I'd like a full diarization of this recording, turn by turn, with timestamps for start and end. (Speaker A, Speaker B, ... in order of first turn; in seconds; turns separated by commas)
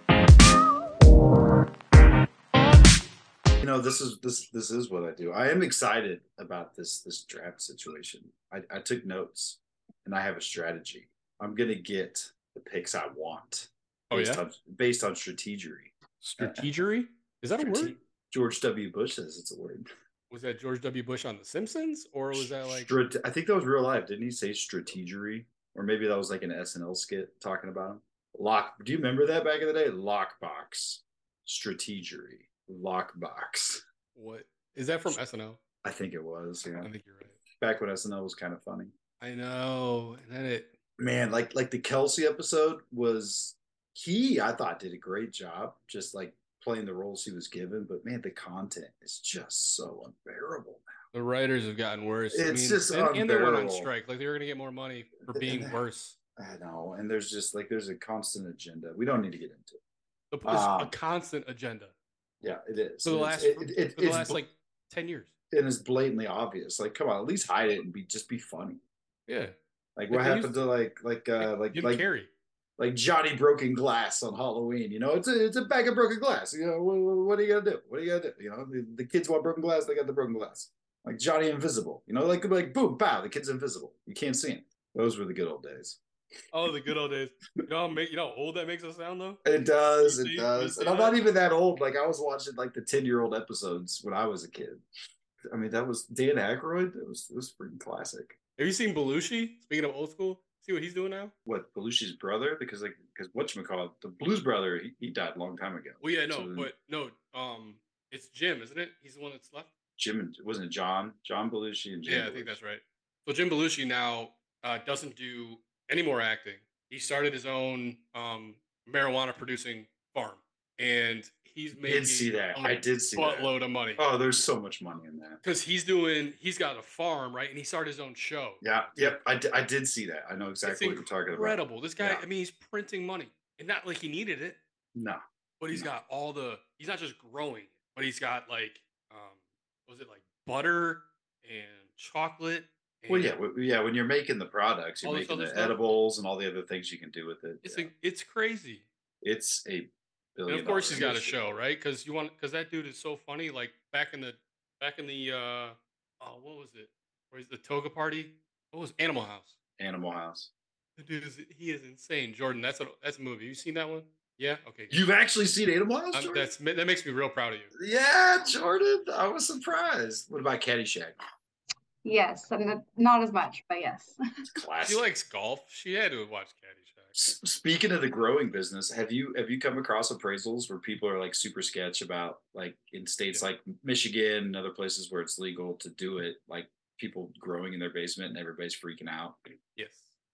Speaker A: 3.6-16.8, Speaker B: 14.1-14.4, Speaker B: 16.2-17.9, Speaker A: 17.6-19.9, Speaker B: 20.3-22.9, Speaker A: 22.3-33.8, Speaker B: 34.1-35.6, Speaker A: 35.8-36.9, Speaker B: 36.8-37.4, Speaker A: 37.6-38.9, Speaker B: 39.2-40.7, Speaker A: 41.0-50.8, Speaker B: 51.1-56.1, Speaker A: 52.3-53.9, Speaker A: 55.2-55.8, Speaker A: 56.4-59.8, Speaker B: 60.3-61.9, Speaker A: 60.4-60.9, Speaker A: 62.4-64.4, Speaker B: 63.0-65.3, Speaker A: 65.5-68.8, Speaker B: 69.3-69.5, Speaker A: 70.0-72.0, Speaker B: 70.1-70.6, Speaker B: 71.4-72.3, Speaker A: 72.8-86.0, Speaker B: 86.5-89.4, Speaker A: 89.4-94.8, Speaker B: 90.0-91.2, Speaker A: 95.5-98.3, Speaker B: 98.6-101.3, Speaker A: 101.5-106.7, Speaker B: 106.0-109.7, Speaker A: 110.0-112.6, Speaker B: 112.0-124.0, Speaker A: 121.7-125.4, Speaker B: 125.4-129.2, Speaker A: 128.6-132.2, Speaker B: 130.6-134.6, Speaker A: 134.9-135.2, Speaker B: 135.6-143.4, Speaker A: 143.1-147.9, Speaker B: 145.0-145.9, Speaker B: 147.6-148.8, Speaker A: 149.2-151.4, Speaker B: 150.5-159.5, Speaker A: 159.8-160.5, Speaker B: 161.0-165.0, Speaker A: 164.9-166.5, Speaker B: 166.1-167.7, Speaker A: 167.8-171.2, Speaker C: 172.0-174.2, Speaker A: 174.4-175.1, Speaker B: 174.8-177.2, Speaker A: 177.2-189.4, Speaker B: 189.8-190.1